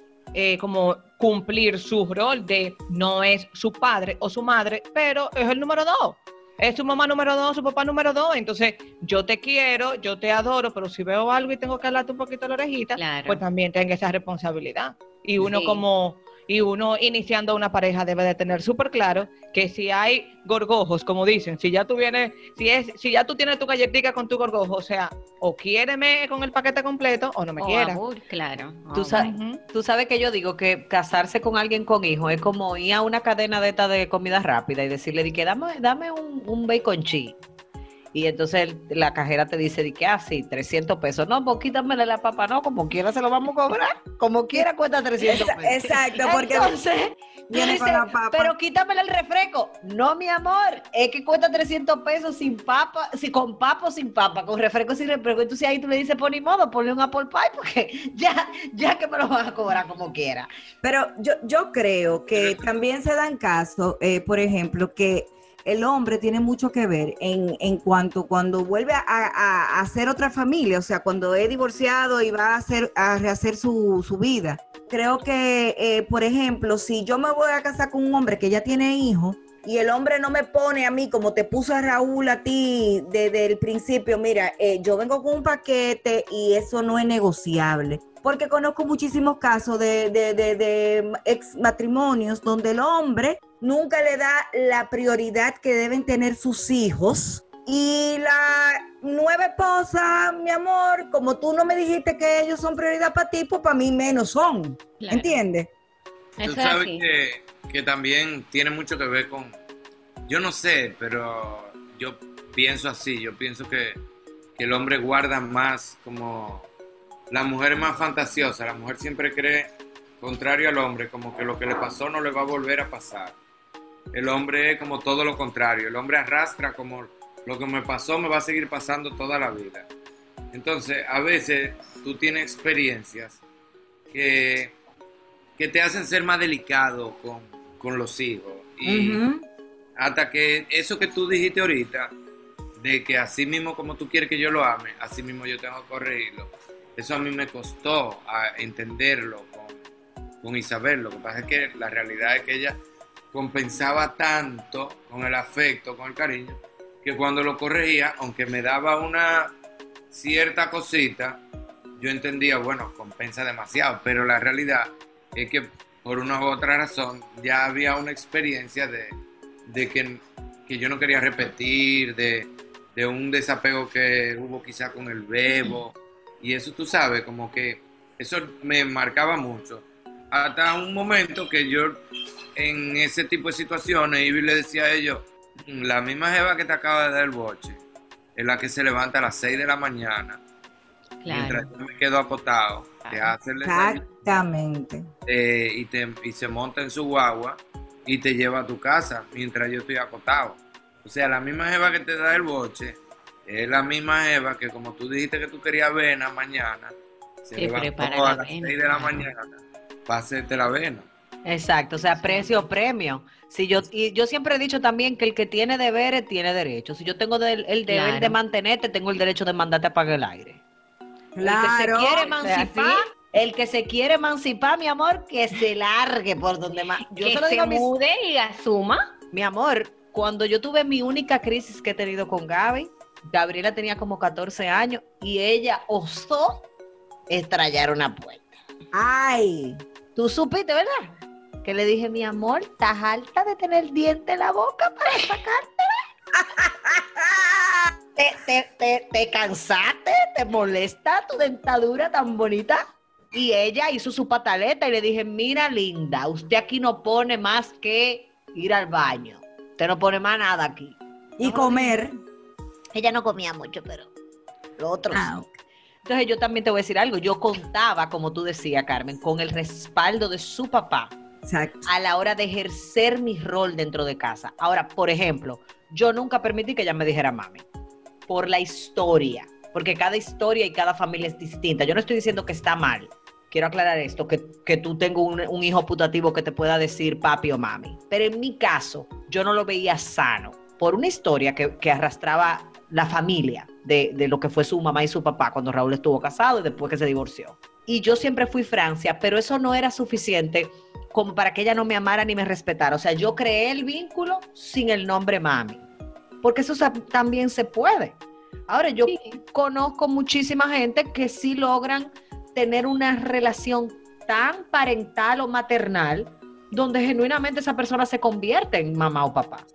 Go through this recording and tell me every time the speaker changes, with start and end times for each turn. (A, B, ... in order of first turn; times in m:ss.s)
0:00.3-0:28.0 A
0:13.0-0:13.4 B
0:15.4-0:15.8 B
0:27.6-0:29.3 B
0:28.9-0:37.4 C
0:29.1-0:29.6 A
0:38.1-1:00.5 C
0:45.2-0:46.7 D
0:47.5-0:48.5 D
1:00.8-1:45.7 D
1:02.3-1:02.7 E
1:45.0-1:45.4 B
1:46.4-1:47.0 B
1:46.4-1:49.5 E
1:50.3-1:54.0 E
1:54.6-1:56.7 E
1:57.3-1:59.7 E
2:00.2-2:03.4 E
2:04.1-2:09.8 E
2:10.5-2:13.4 E
2:14.1-2:14.7 E
2:15.6-2:19.2 E
2:18.8-2:19.4 D
2:20.0-2:22.1 E
2:22.8-2:29.8 E
2:30.4-2:32.8 E
2:33.3-2:39.5 E
2:40.1-2:41.4 E
2:42.0-2:49.1 E
2:49.7-3:02.0 E
3:02.6-3:07.8 E
3:08.4-3:10.4 E
3:11.2-3:11.7 B
3:11.3-3:14.4 E
3:13.6-3:15.1 D
3:15.3-3:23.0 E
3:23.5-3:29.5 E
3:27.6-3:29.3 B
3:30.1-3:31.1 E
3:31.4-3:40.6 C
3:32.2-3:32.5 B
3:37.9-3:38.4 B
3:41.4-3:43.0 D
3:41.4-3:47.9 C
3:47.1-3:49.0 B
3:49.3-3:56.6 C
3:57.3-3:58.6 C
3:58.9-3:59.8 D
4:00.2-4:01.1 C
4:01.6-4:06.0 C
4:06.4-4:07.9 D
4:08.2-4:22.0 C
4:21.4-4:22.2 D
4:22.9-4:24.1 C
4:24.8-4:25.3 C
4:25.1-4:25.5 D
4:26.0-4:31.1 C
4:31.4-4:31.9 D
4:31.8-4:37.6 C
4:38.3-5:05.8 C
5:06.4-5:08.2 C
5:08.7-5:19.6 C
5:09.0-5:09.4 B